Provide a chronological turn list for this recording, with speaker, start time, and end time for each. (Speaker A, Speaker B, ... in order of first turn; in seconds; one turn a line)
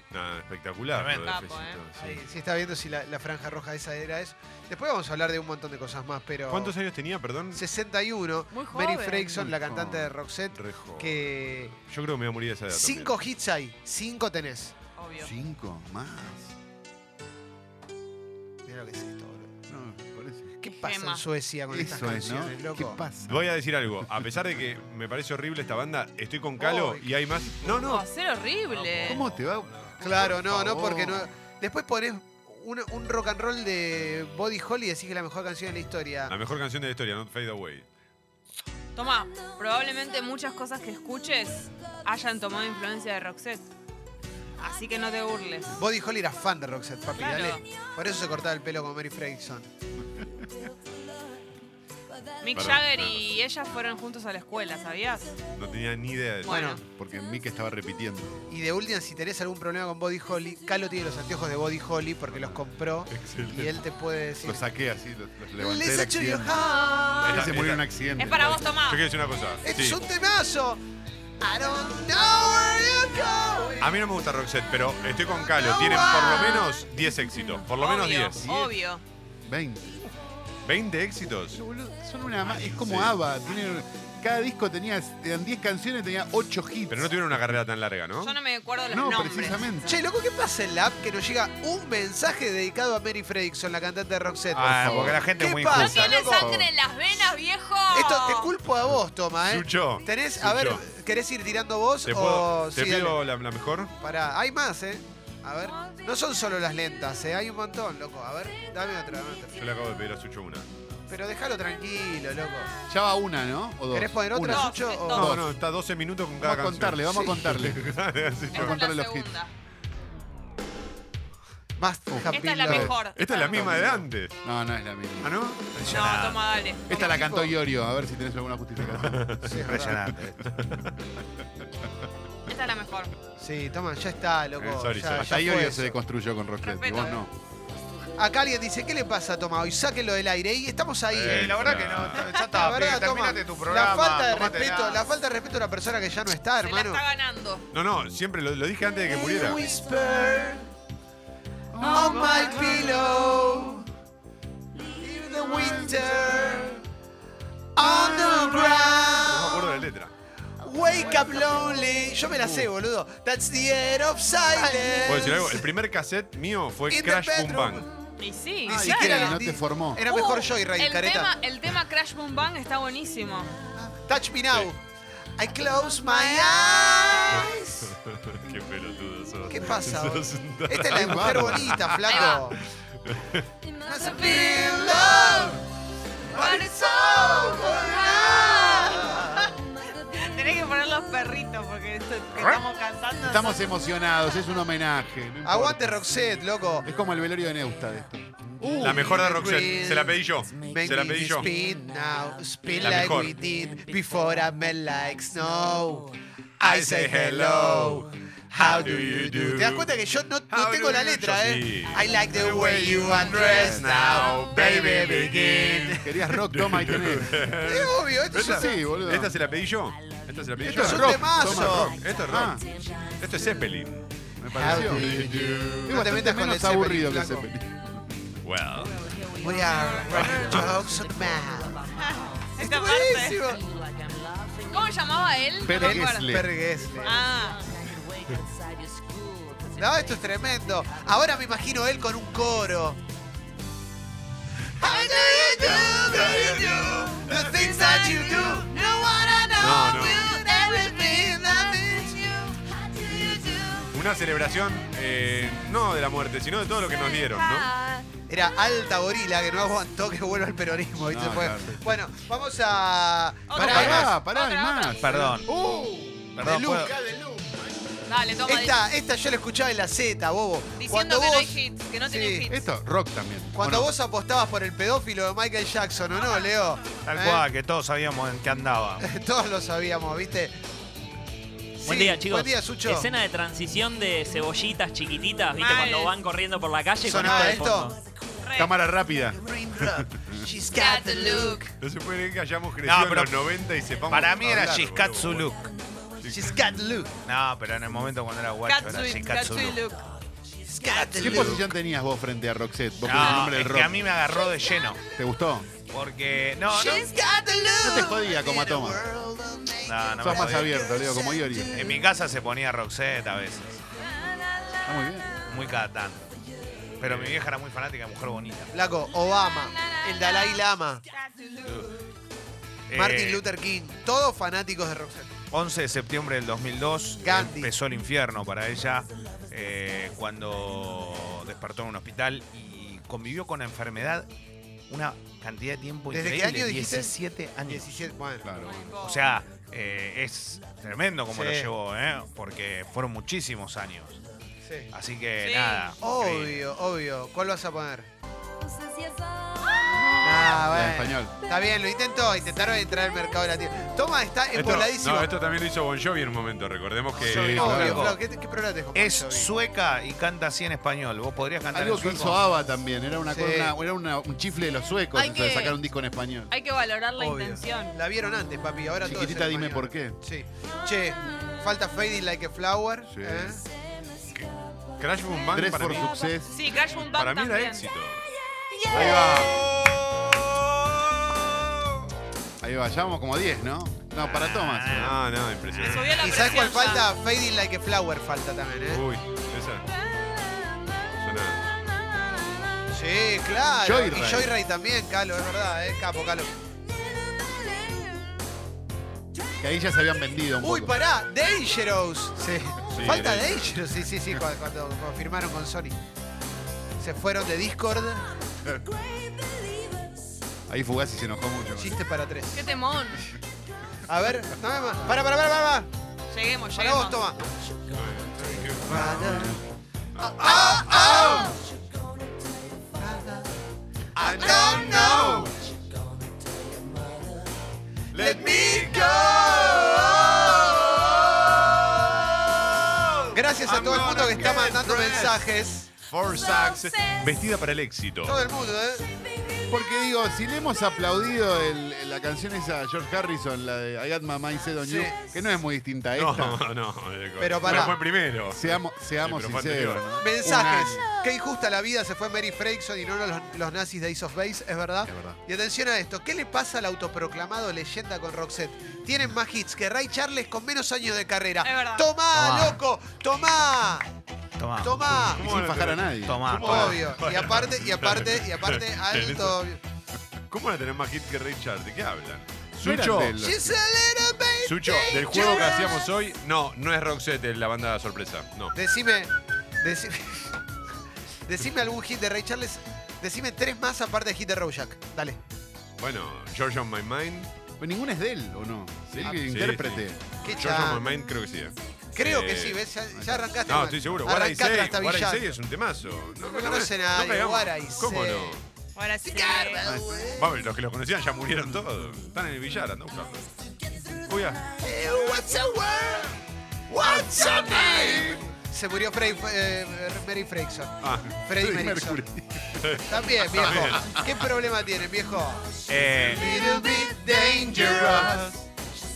Speaker A: 0.1-2.2
Speaker B: 0.9-1.3
Speaker C: 1.2-1.8
Speaker D: 1.9-6.7
Speaker A: 6.5-7.6
Speaker D: 7.5-11.7
Speaker C: 8.5-9.5
Speaker E: 9.3-10.1
Speaker A: 10.5-13.2
Speaker D: 12.7-14.7
Speaker C: 15.0-15.3
Speaker E: 15.2-16.5
Speaker D: 18.6-19.6
Speaker E: 19.7-20.5
Speaker D: 20.6-23.0
Speaker C: 20.8-21.2
Speaker E: 21.7-23.5
Speaker A: 23.3-28.0
Speaker D: 26.6-27.8
Speaker C: 27.8-29.2
Speaker B: 28.7-29.3
Speaker E: 29.0-31.3
Speaker D: 30.0-36.3
Speaker A: 36.3-37.9
Speaker C: 39.0-43.6
Speaker C: 44.6-45.8
Speaker D: 45.7-49.7
Speaker C: 47.1-47.6
Speaker C: 52.4-55.4
Speaker A: 52.5-53.2
Speaker A: 55.5-56.7
Speaker C: 56.4-56.8
Speaker D: 56.5-56.8
Speaker E: 56.9-58.5
Speaker D: 58.5-64.6
Speaker A: 62.3-62.6
Speaker A: 63.1-63.8
Speaker E: 64.4-66.6
Speaker D: 65.6-67.6
Speaker A: 67.2-67.8
Speaker E: 67.2-68.6
Speaker C: 68.2-69.0
Speaker A: 68.9-70.0
Speaker D: 69.6-70.8
Speaker D: 71.4-74.0
Speaker A: 73.8-78.7
Speaker D: 75.4-76.6
Speaker C: 76.0-76.7
Speaker C: 77.8-79.0
Speaker E: 79.4-80.1
Speaker A: 80.6-81.6
Speaker E: 81.5-87.6
Speaker A: 82.4-83.1
Speaker A: 86.9-88.3
Speaker C: 88.2-89.7
Speaker E: 88.9-89.9
Speaker D: 89.8-94.7
Speaker B: 94.5-96.0
Speaker E: 94.6-95.3
Speaker D: 95.4-96.5
Speaker C: 95.7-98.5
Speaker E: 96.3-96.7
Speaker D: 97.9-103.2
Speaker A: 99.5-100.8
Speaker A: 102.0-103.9
Speaker D: 104.0-109.6
Speaker A: 109.5-110.7
Speaker D: 111.1-112.7
Speaker E: 112.9-115.5
Speaker D: 113.9-115.3
Speaker C: 114.5-115.3
Speaker A: 115.1-118.8
Speaker E: 116.4-118.0
Speaker E: 118.5-119.4
Speaker C: 118.5-119.5
Speaker D: 121.8-123.0
Speaker E: 122.1-122.9
Speaker C: 122.2-123.8
Speaker A: 123.2-124.4
Speaker E: 123.5-125.4
Speaker A: 125.2-125.6
Speaker B: 125.7-126.4
Speaker C: 125.8-127.5
Speaker E: 126.9-130.3
Speaker A: 128.8-129.5
Speaker D: 129.4-130.0
Speaker B: 129.5-130.4
Speaker A: 130.4-131.0
Speaker C: 132.5-133.1
Speaker D: 133.4-135.9
Speaker A: 134.6-135.4
Speaker E: 135.2-137.3
Speaker C: 136.6-137.2
Speaker D: 138.2-147.0
Speaker B: 141.1-145.0
Speaker A: 141.3-142.3
Speaker C: 146.6-147.7
Speaker A: 147.7-149.6
Speaker D: 149.1-150.7
Speaker E: 151.7-152.9
Speaker D: 151.8-153.9
Speaker D: 155.0-156.8
Speaker E: 155.0-155.9
Speaker D: 157.8-159.8
Speaker A: 159.1-160.1
Speaker D: 160.6-165.7
Speaker A: 165.0-167.8
Speaker D: 166.9-167.9
Speaker C: 168.2-169.4
Speaker D: 168.7-171.3
Speaker E: 168.7-170.0
Speaker C: 170.1-173.5
Speaker D: 173.8-174.8
Speaker D: 175.4-177.9
Speaker C: 176.1-177.1
Speaker A: 177.3-183.4
Speaker D: 179.4-182.6
Speaker E: 180.9-181.8
Speaker C: 182.1-182.4
Speaker D: 183.8-185.6
Speaker C: 184.0-185.1
Speaker D: 186.3-189.5
Speaker C: 186.3-193.6
Speaker E: 193.2-196.0
Speaker D: 195.4-196.9
Speaker E: 196.8-199.1
Speaker D: 198.6-216.2
Speaker A: 198.8-201.5
Speaker A: 202.8-203.3
Speaker A: 206.6-209.9
Speaker A: 210.5-226.1
Speaker E: 216.0-217.4
Speaker D: 217.6-218.8
Speaker E: 218.4-219.4
Speaker E: 220.6-222.6
Speaker D: 220.6-222.0
Speaker E: 224.4-225.3
Speaker D: 224.5-227.5
Speaker E: 225.8-228.1
Speaker A: 228.4-229.0
Speaker C: 229.0-230.1
Speaker D: 229.4-231.9
Speaker A: 230.2-230.6
Speaker C: 232.0-233.5
Speaker D: 232.6-233.6
Speaker C: 234.6-236.5
Speaker E: 235.6-236.5
Speaker D: 235.8-237.3
Speaker C: 237.0-237.6
Speaker D: 239.8-243.0
Speaker D: 244.8-253.9
Speaker C: 245.1-245.8
Speaker A: 247.3-247.6
Speaker A: 249.6-250.3
Speaker A: 253.9-257.7
Speaker C: 257.1-258.1
Speaker D: 258.3-264.2
Speaker E: 261.1-261.8
Speaker C: 263.5-265.1
Speaker E: 263.5-267.8
Speaker B: 265.0-265.5
Speaker B: 266.3-266.9
Speaker C: 268.1-268.8
Speaker D: 268.4-272.5
Speaker C: 270.8-272.5
Speaker E: 272.5-273.9
Speaker D: 273.5-277.4
Speaker B: 277.1-279.0
Speaker D: 279.0-280.5
Speaker D: 281.8-283.1
Speaker F: 281.8-288.0
Speaker C: 285.6-286.1
Speaker D: 287.0-287.9
Speaker C: 288.4-288.7
Speaker E: 288.6-290.4
Speaker D: 289.4-291.7
Speaker C: 290.7-291.6
Speaker A: 291.8-295.5
Speaker B: 292.8-293.4
Speaker B: 294.1-295.6
Speaker A: 296.2-296.6
Speaker D: 296.3-297.1
Speaker B: 297.2-299.8
Speaker C: 298.6-300.2
Speaker D: 300.6-301.7
Speaker E: 301.1-304.1
Speaker A: 301.2-301.6
Speaker B: 303.0-305.0
Speaker D: 304.3-305.1
Speaker E: 305.1-305.7
Speaker B: 305.9-307.1
Speaker D: 306.7-312.0
Speaker E: 307.8-309.0
Speaker B: 309.8-310.7
Speaker E: 310.2-311.9
Speaker B: 311.7-313.8
Speaker C: 314.0-315.6
Speaker E: 314.8-315.3
Speaker B: 315.5-316.3
Speaker B: 317.0-318.7
Speaker A: 317.0-317.4
Speaker D: 318.7-321.0
Speaker C: 319.5-321.9
Speaker B: 322.9-323.4
Speaker D: 322.9-325.3
Speaker B: 325.5-334.3
Speaker D: 327.2-327.7
Speaker B: 334.9-338.1
Speaker D: 336.1-338.5
Speaker E: 338.4-339.0
Speaker C: 338.6-339.4
Speaker B: 339.0-344.2
Speaker D: 341.3-341.7
Speaker D: 344.6-344.9
Speaker B: 344.9-346.5
Speaker C: 345.4-345.9
Speaker D: 346.0-348.1
Speaker C: 349.7-350.4
Speaker D: 350.2-355.3
Speaker E: 350.4-351.3
Speaker A: 354.5-358.1
Speaker D: 357.2-359.5
Speaker B: 357.2-358.2
Speaker B: 358.9-362.4
Speaker E: 361.7-366.5
Speaker D: 363.3-363.7
Speaker C: 365.1-365.8
Speaker C: 366.5-367.9
Speaker D: 367.2-373.6
Speaker E: 369.0-370.2
Speaker E: 373.1-373.6
Speaker A: 375.0-376.1
Speaker E: 375.5-376.6
Speaker C: 376.5-377.9
Speaker A: 376.7-378.2
Speaker C: 378.8-379.4
Speaker E: 378.9-379.6
Speaker A: 378.9-381.8
Speaker E: 382.6-385.2
Speaker B: 384.2-385.2
Speaker A: 384.9-386.4
Speaker C: 385.8-387.1
Speaker D: 386.2-389.0
Speaker A: 388.9-389.9
Speaker A: 391.2-391.6
Speaker D: 392.9-396.5
Speaker E: 393.8-394.5
Speaker E: 399.6-401.0
Speaker D: 400.6-406.0
Speaker A: 402.9-403.8
Speaker D: 407.0-408.3
Speaker E: 410.7-412.0
Speaker D: 411.8-412.7
Speaker C: 412.5-413.2
Speaker D: 414.1-415.9
Speaker C: 416.3-417.2
Speaker D: 416.7-417.4
Speaker A: 417.9-419.5
Speaker D: 418.4-419.6
Speaker A: 420.1-421.5
Speaker D: 420.2-421.6
Speaker D: 423.0-423.5
Speaker D: 424.1-425.5
Speaker A: 424.2-425.5
Speaker A: 428.1-435.4
Speaker D: 428.1-430.9
Speaker D: 433.3-435.9
Speaker A: 436.0-438.4
Speaker D: 438.2-439.1
Speaker E: 439.7-446.6
Speaker D: 444.8-445.2
Speaker A: 446.1-450.0
Speaker D: 447.4-448.0
Speaker E: 447.6-451.0
Speaker D: 450.2-464.1
Speaker E: 455.0-455.4
Speaker C: 461.6-462.1
Speaker B: 462.3-462.8
Speaker B: 464.6-465.1
Speaker D: 464.8-465.4
Speaker E: 465.0-466.6
Speaker A: 465.2-469.6
Speaker B: 466.2-467.0
Speaker D: 466.6-469.8
Speaker A: 470.5-473.4
Speaker E: 472.8-473.8
Speaker D: 473.4-476.0
Speaker A: 474.6-478.8
Speaker D: 478.7-480.6
Speaker D: 481.4-485.4
Speaker A: 486.0-487.5
Speaker E: 487.8-490.3
Speaker A: 489.1-492.8
Speaker D: 490.4-491.1
Speaker D: 492.1-495.5
Speaker E: 493.1-493.5
Speaker A: 493.7-498.6
Speaker D: 496.4-498.6
Speaker C: 498.9-499.8
Speaker D: 499.2-500.4
Speaker E: 499.8-500.3
Speaker A: 500.4-503.5
Speaker A: 504.3-504.6
Speaker D: 504.8-506.4
Speaker D: 506.9-512.2
Speaker E: 507.1-508.3
Speaker A: 511.0-511.3
Speaker E: 511.5-512.9
Speaker A: 512.8-514.0
Speaker D: 513.1-518.5
Speaker E: 513.7-514.2
Speaker B: 515.9-516.4
Speaker E: 516.4-518.5
Speaker A: 517.8-518.4